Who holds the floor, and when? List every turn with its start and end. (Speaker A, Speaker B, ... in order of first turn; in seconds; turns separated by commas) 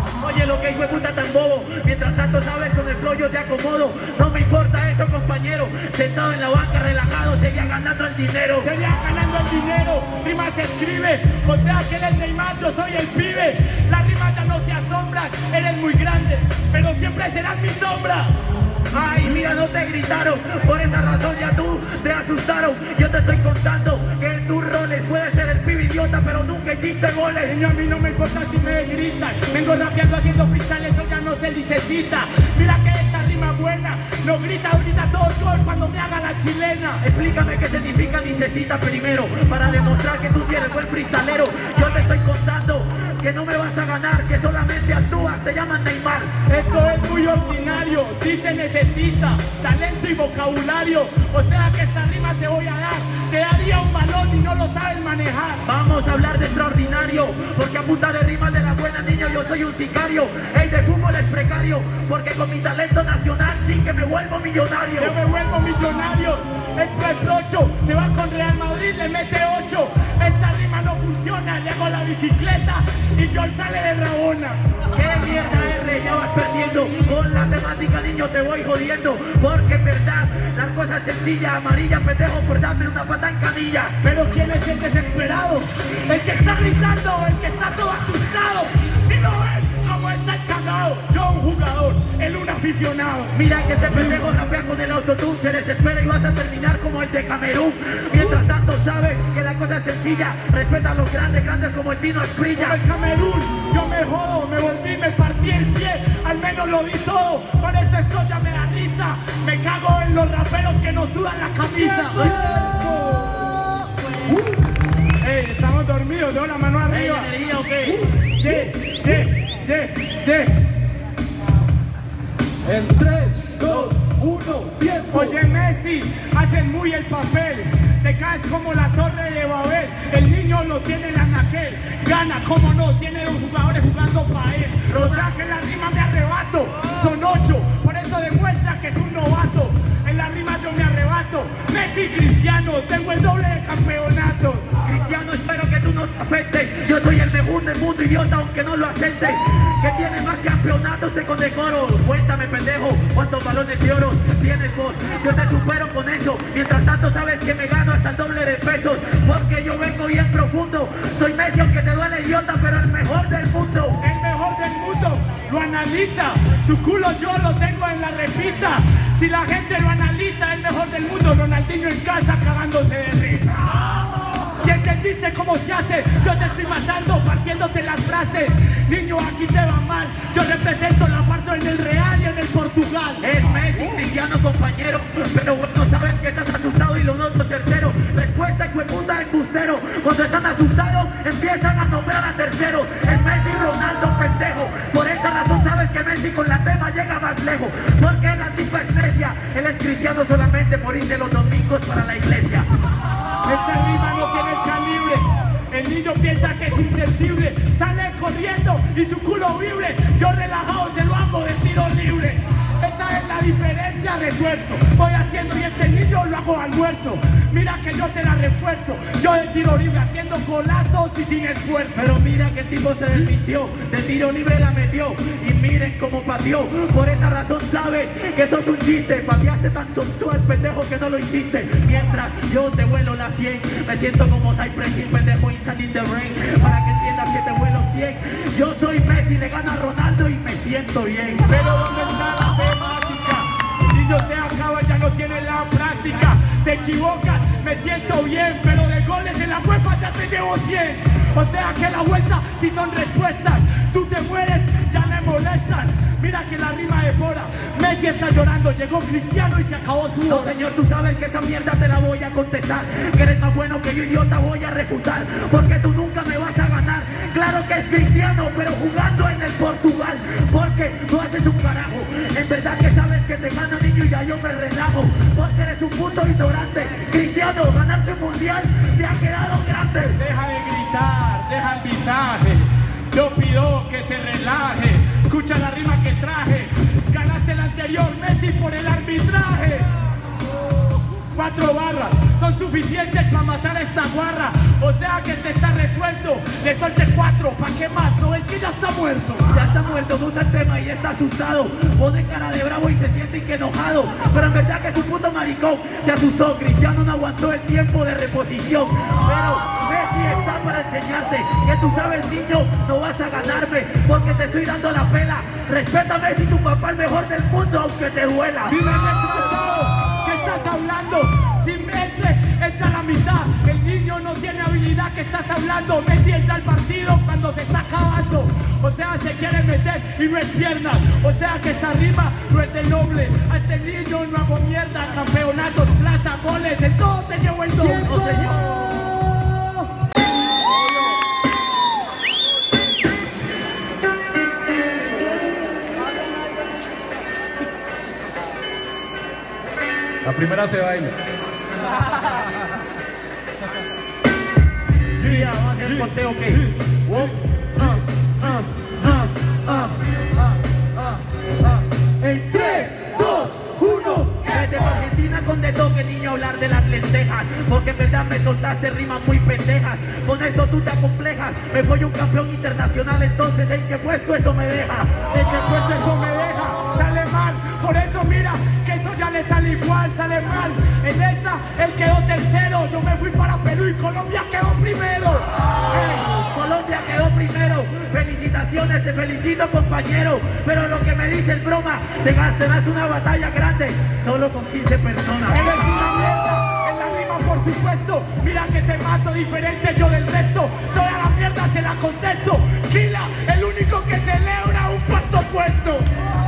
Speaker A: 0.2-8.7, Speaker B: 8.6-18.3, Speaker A: 18.9-27.6, Speaker B: 27.4-37.0, Speaker A: 37.0-46.3, Speaker B: 46.5-55.6, Speaker A: 55.6-65.2, Speaker B: 65.0-74.6, Speaker A: 74.9-84.0, Speaker B: 84.0-93.3, Speaker A: 93.3-102.8, Speaker B: 102.6-112.3, Speaker C: 112.1-114.5, Speaker B: 115.2-117.3, Speaker A: 116.9-118.0, Speaker B: 118.3-120.6, Speaker C: 122.6-125.3, Speaker B: 125.1-144.7, Speaker A: 134.9-135.3, Speaker A: 144.8-164.0, Speaker B: 164.0-173.9, Speaker B: 174.6-183.3, Speaker A: 183.2-202.7, Speaker B: 203.4-222.0, Speaker A: 221.9-241.5, Speaker B: 241.4-260.5, Speaker A: 260.3-280.2, Speaker B: 280.1-289.9, Speaker B: 291.3-299.5, Speaker A: 299.5-318.8, Speaker B: 318.6-338.2, Speaker A: 338.0-339.1, Speaker C: 350.2-351.1, Speaker A: 355.2-356.7, Speaker C: 357.1-357.3, Speaker B: 362.2-363.4, Speaker C: 362.4-364.3, Speaker A: 364.4-375.1, Speaker B: 375.3-385.4, Speaker A: 385.9-395.7, Speaker B: 395.5-406.1